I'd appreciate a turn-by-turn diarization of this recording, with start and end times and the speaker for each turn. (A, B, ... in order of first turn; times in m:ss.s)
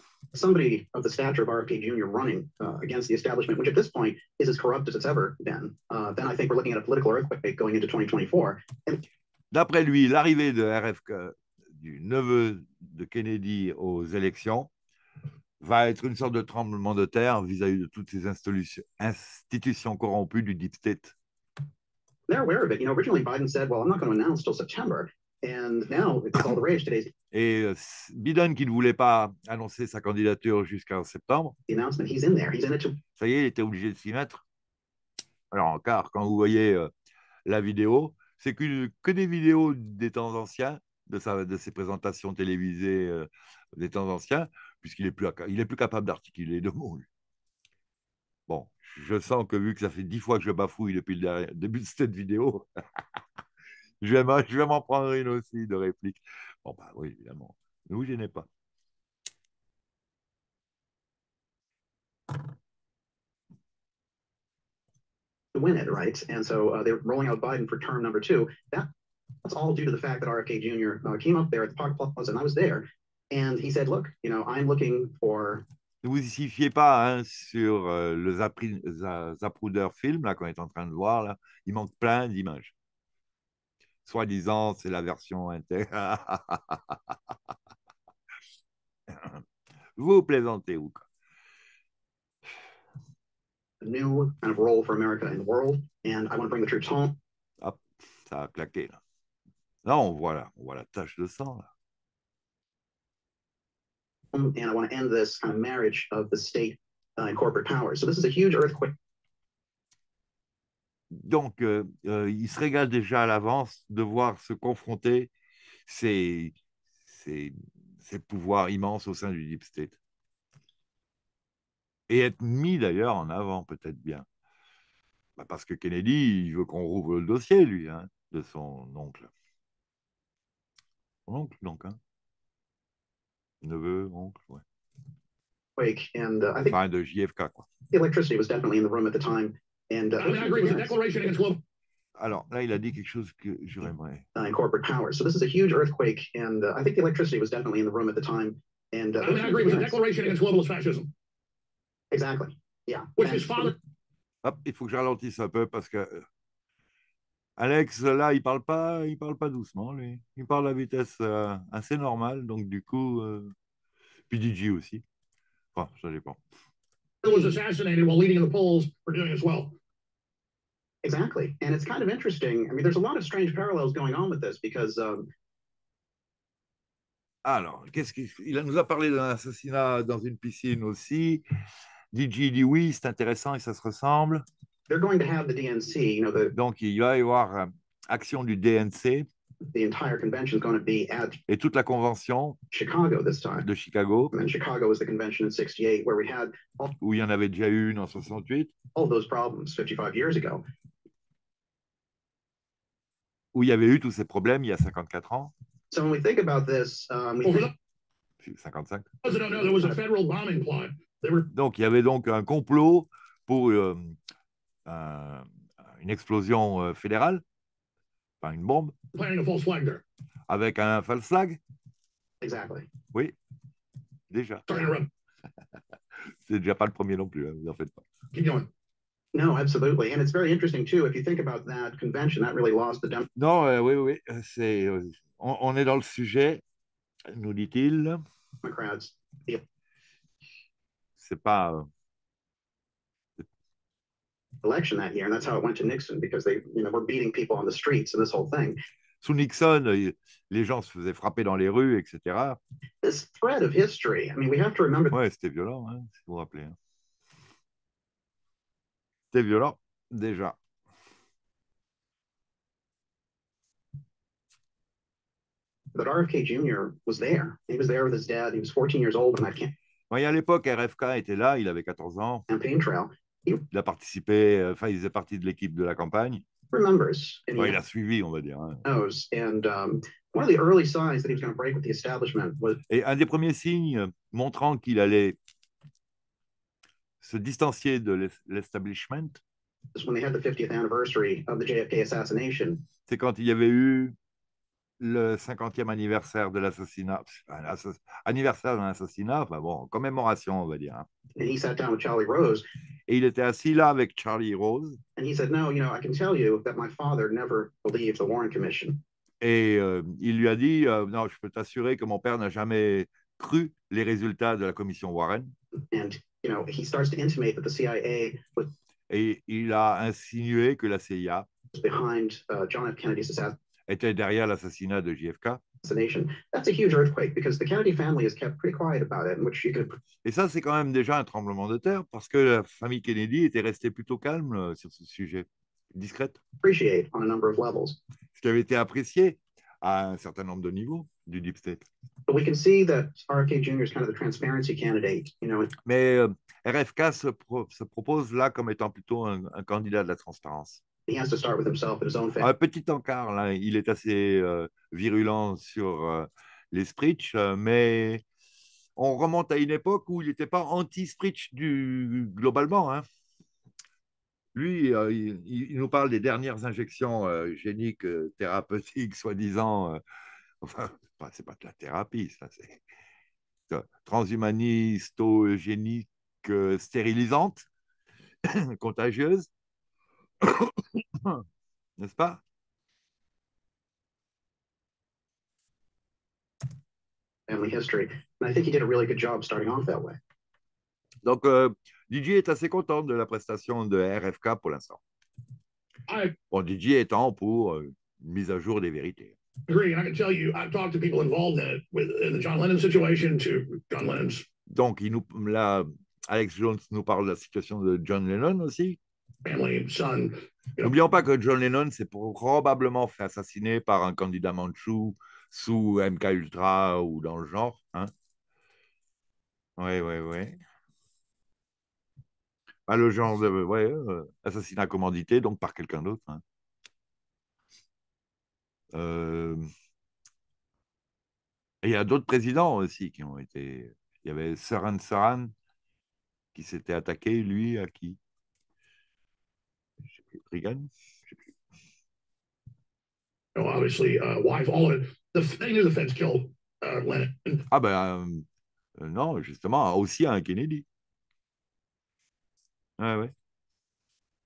0:00.3-0:09.0 A
0:09.5-0:14.7 B
0:15.6-0:21.1 B
0:22.3-0:27.1 A
0:27.3-0:31.5 B
0:31.7-0:33.0 A
0:33.1-0:34.4 B
0:35.5-0:36.9 B
0:37.4-0:47.1 B
0:48.5-0:52.7 B
0:54.0-0:58.5 B
1:05.5-1:08.9 A
1:09.4-1:15.6 A
1:16.0-1:22.7 B
1:24.0-1:27.1 B
1:29.1-1:29.4 B
1:30.0-1:31.0 B
1:33.8-1:37.2 A
1:37.6-1:39.0 B
1:39.8-1:41.7 B
1:44.3-1:48.9 A
1:51.1-1:55.3 B
1:55.9-1:56.5 B
1:57.1-2:00.0 B
2:02.1-2:04.2 B
2:05.4-2:09.3 B
2:11.3-2:12.0 B
2:13.6-2:14.6 B
2:15.8-2:16.8 A
2:16.7-2:17.7 B
2:17.9-2:20.9 A
2:20.2-2:21.6 C
2:22.2-2:24.2 B
2:24.3-2:30.0 A
2:29.2-2:31.1 C
2:32.1-2:33.8 A
2:33.2-2:33.7 C
2:34.4-2:36.2 B
2:37.6-2:43.5 B
2:44.3-2:45.0 B
2:45.7-2:46.4 B
2:47.2-2:47.6 A
2:47.2-2:49.7 C
2:51.0-2:55.3 A
2:57.4-3:01.4 B
3:02.1-3:04.4 B
3:04.9-3:06.5 A
3:06.5-3:09.3 B
3:09.7-3:11.4 A
3:11.5-3:12.6 B
3:12.7-3:13.6 A
3:13.6-3:14.3 B
3:14.3-3:16.9 A
3:17.0-3:18.7 B
3:18.9-3:20.6 A
3:23.5-3:25.5 B
3:25.9-3:27.7 A
3:27.4-3:27.7 C
3:28.4-3:29.1 B
3:29.2-3:31.5 C
3:29.6-3:29.9 A
3:31.5-3:34.2 B
3:34.8-3:37.4 B
3:38.4-3:38.9 B
3:39.1-3:40.0 C
3:40.5-3:41.6 B
3:42.4-3:42.9 A
3:44.3-3:44.7 B
3:44.7-3:45.1 C
3:46.4-3:48.0 B
3:48.3-3:48.7 C
3:49.3-3:53.3 A
3:53.4-3:56.6 B
3:57.3-3:58.2 B
3:58.6-3:59.6 A
4:01.2-4:01.9 B
4:04.6-4:08.8 A
4:09.2-4:12.6 B
4:13.0-4:15.1 A
4:15.1-4:16.8 B
4:19.3-4:20.6 B
4:25.9-4:29.7 A
4:30.1-4:32.4 B
4:32.5-4:33.6 A
4:33.7-4:36.4 B
4:36.7-4:37.8 A
4:37.6-4:38.8 B
4:38.8-4:42.8 A
4:42.9-4:45.4 B
4:47.2-4:49.4 B
4:49.9-4:52.8 A
4:53.1-4:54.1 B
4:55.0-5:01.1 B
5:01.4-5:02.6 A
5:03.1-5:05.0 B
5:05.2-5:09.0 A
5:09.4-5:15.5 B
5:15.9-5:18.7 A
5:19.1-5:21.5 B
5:21.7-5:23.6 A
5:23.9-5:25.6 B
5:25.8-5:30.0 A
5:30.2-5:36.4 B
5:36.6-5:38.0 A
5:38.3-5:41.8 B
5:42.3-5:45.7 A
5:45.8-5:50.8 B
5:51.1-5:52.5 A
5:52.4-5:58.2 B
5:59.0-6:03.0 B
6:04.5-6:10.0 B
6:10.6-6:12.8 B
6:13.7-6:17.7 B
6:18.4-6:19.5 B
6:20.4-6:21.4 B
6:22.0-6:22.4 B
6:27.5-6:30.2 A
6:31.2-6:35.0 B
6:36.1-6:36.4 C
6:36.5-6:39.4 B
6:39.7-6:44.4 C
6:44.7-6:49.0 B
6:49.4-6:50.9 C
6:50.8-6:58.1 B
6:59.8-7:00.6 B
7:02.9-7:06.4 B
7:08.9-7:09.6 B
7:11.8-7:15.5 B
7:16.5-7:18.2 B
7:20.3-7:21.3 B
7:23.5-7:27.6 C
7:27.7-7:28.4 B
7:29.0-7:30.8 B
7:33.0-7:33.3 B